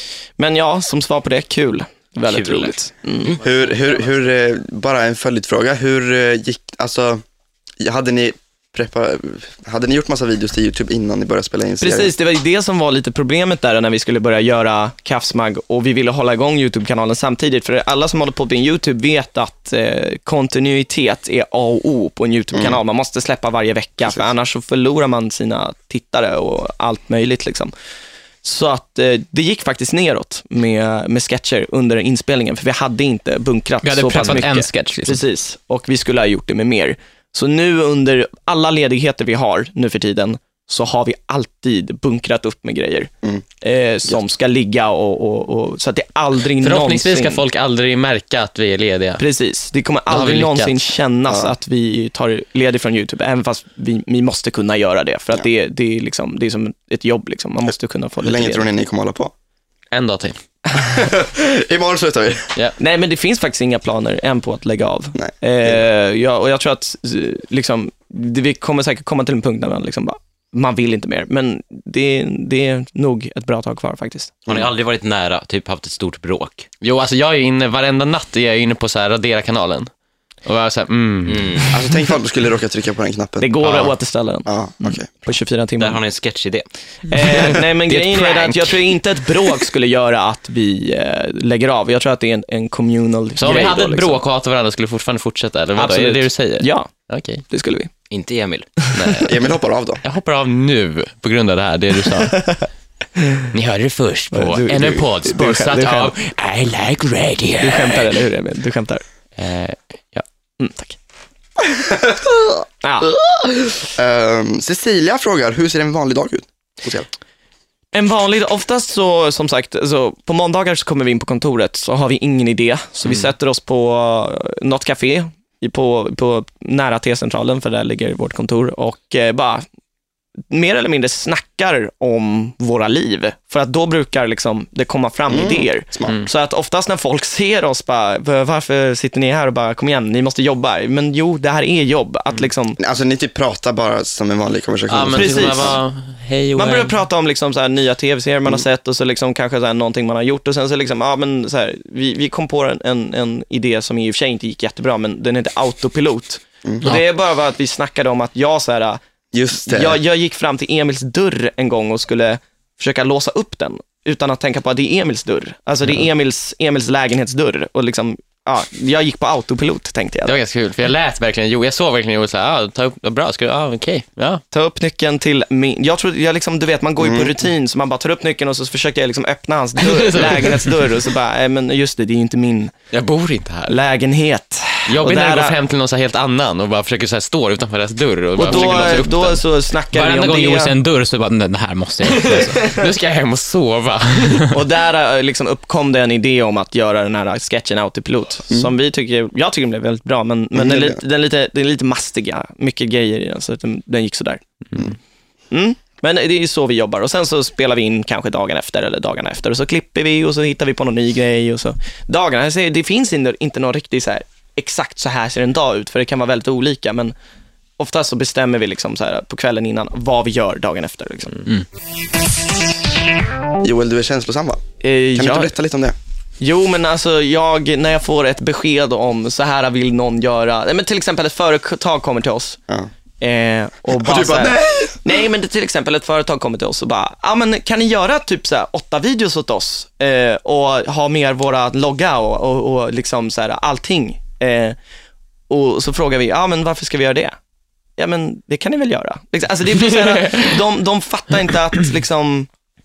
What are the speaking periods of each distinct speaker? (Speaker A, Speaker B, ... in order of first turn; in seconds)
Speaker A: 0.4-3.4, 11.8-27.7, 28.4-43.1, 43.6-47.4, 49.2-58.7, 62.8-74.3, 83.4-86.0, 87.1-94.2, 95.8-96.9, 97.5-97.9, 104.3-106.2, 107.6-109.0, 110.6-111.0, 112.8-113.1, 117.9-129.7, 130.5-142.8, 145.1-145.8, 146.6-159.0, 159.5-170.3, 174.5-182.7, 183.7-185.6, 188.4-190.8, 194.5-204.8, 205.5-217.1, 217.8-221.5, 224.8-225.5, 226.4-232.6, 233.2-244.8, 245.5-247.4, 248.0-252.5
Speaker B: 2.2-3.4, 74.5-76.7, 81.3-81.7, 85.8-86.7, 98.1-98.7
Speaker C: 3.4-7.2, 7.8-12.1, 22.5-22.8, 51.3-51.5, 58.2-59.3, 60.8-62.5, 65.2-65.8, 81.7-83.8, 84.5-85.1, 99.2-100.0, 111.8-112.3, 114.0-117.1, 135.3-136.2, 142.8-145.8, 156.7-156.9, 159.3-160.0, 177.0-177.3, 200.5-201.0, 223.6-224.6, 225.1-226.0, 233.9-235.0
Speaker D: 33.8-35.2, 188.5-188.9, 189.9-192.6
Speaker E: 46.6-49.2, 50.1-50.8, 59.9-60.4, 76.8-79.9, 80.5-81.8, 87.2-88.9, 93.3-97.4, 98.9-99.4, 100.0-102.5, 103.5-108.2, 109.4-110.2, 144.9-147.0, 170.2-174.4, 179.8-180.9, 182.9-183.8, 184.9-189.4, 192.0-194.5, 250.0-250.4